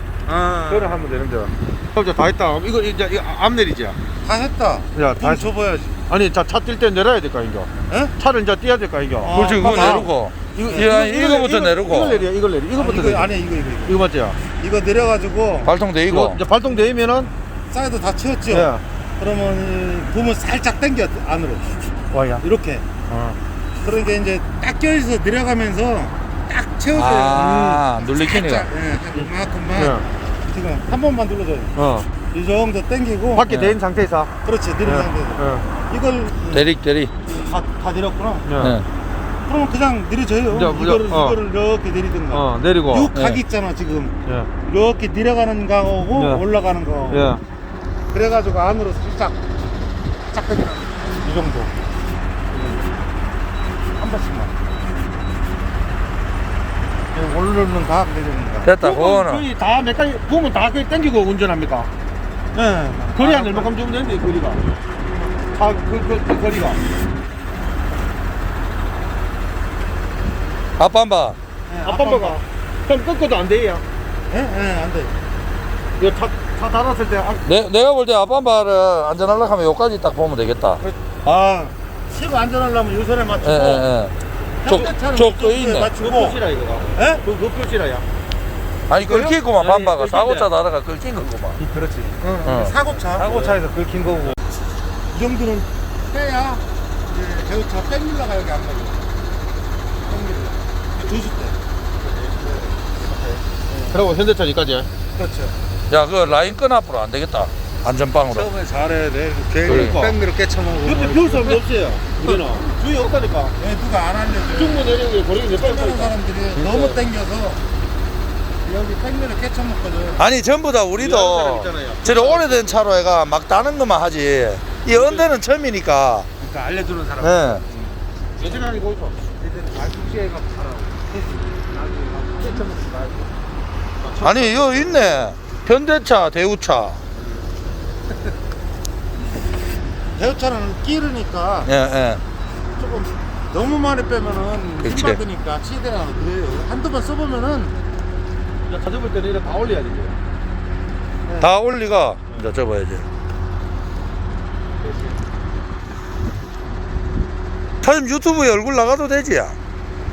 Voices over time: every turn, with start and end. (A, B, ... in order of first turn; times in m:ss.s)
0:00.2-0:01.0 A
0:00.7-0:04.0 B
0:04.2-0:06.0 A
0:04.9-0:05.5 B
0:06.1-0:13.3 B
0:09.2-0:10.1 A
0:09.3-0:12.2 C
0:12.8-0:13.9 A
0:13.8-0:14.4 B
0:14.6-0:15.7 A
0:15.6-0:16.4 C
0:16.1-0:17.3 B
0:17.7-0:21.8 A
0:18.5-0:18.8 B
0:22.1-0:22.4 B
0:22.4-0:22.8 A
0:23.1-0:23.4 B
0:23.8-0:31.7 A
0:26.9-0:28.7 C
0:27.3-0:27.8 B
0:29.1-0:30.0 B
0:31.7-0:32.1 B
0:32.3-0:33.4 A
0:33.3-0:34.3 B
0:33.5-0:33.8 C
0:34.4-0:36.7 A
0:34.8-0:35.6 B
0:36.5-0:37.1 C
0:37.3-0:38.5 A
0:38.4-0:38.8 B
0:38.6-0:38.8 C
0:39.4-0:44.1 A
0:40.5-0:41.4 B
0:42.3-0:43.1 B
0:43.1-0:43.4 C
0:44.2-0:44.5 B
0:44.6-0:47.3 A
0:46.1-0:46.4 B
0:47.1-0:47.4 B
0:48.1-0:49.4 A
0:50.3-0:51.7 A
0:52.5-0:52.9 B
0:54.0-0:54.5 A
0:57.1-0:58.7 A
0:58.6-0:59.4 C
0:58.8-1:01.9 B
1:02.5-1:03.7 A
1:03.2-1:04.6 B
1:05.5-1:06.8 B
1:10.8-1:11.4 C
1:11.7-1:12.4 A
1:11.8-1:13.8 B
1:14.3-1:15.1 A
1:16.0-1:17.5 B
1:17.4-1:20.8 C
1:21.2-1:23.9 A
1:23.4-1:24.1 C
1:24.6-1:26.4 A
1:24.6-1:25.9 C
1:26.0-1:28.0 B
1:26.9-1:27.2 A
1:28.9-1:31.6 C
1:28.9-1:30.5 B
1:31.6-1:34.4 B
1:31.7-1:33.4 A
1:32.4-1:32.8 C
1:35.1-1:39.0 A
1:40.0-1:41.6 A
1:42.0-1:44.9 B
1:42.4-1:42.8 A
1:43.7-1:44.0 A
1:45.1-1:45.6 A
1:45.9-1:48.5 C
1:48.3-1:51.6 A
1:49.6-1:51.4 C
1:49.6-1:50.2 B
1:50.8-1:53.5 B
1:52.2-1:52.8 A
1:53.6-1:54.9 A
1:54.5-1:57.0 B
1:55.5-1:57.6 A
1:58.6-2:00.3 A
2:00.2-2:06.3 C
2:01.0-2:02.8 B
2:04.8-2:05.3 B
2:06.4-2:08.0 A
2:07.2-2:07.6 C
2:08.4-2:09.2 B
2:09.4-2:13.1 A
2:12.3-2:13.1 B
2:14.0-2:15.3 B
2:14.2-2:17.0 C
2:20.2-2:21.7 A
2:21.6-2:22.2 C
2:22.8-2:27.8 A
2:24.8-2:25.2 C
2:28.7-2:30.2 B
2:31.2-2:31.5 A
2:31.4-2:33.0 C
2:34.8-2:35.2 B
2:37.8-2:39.6 C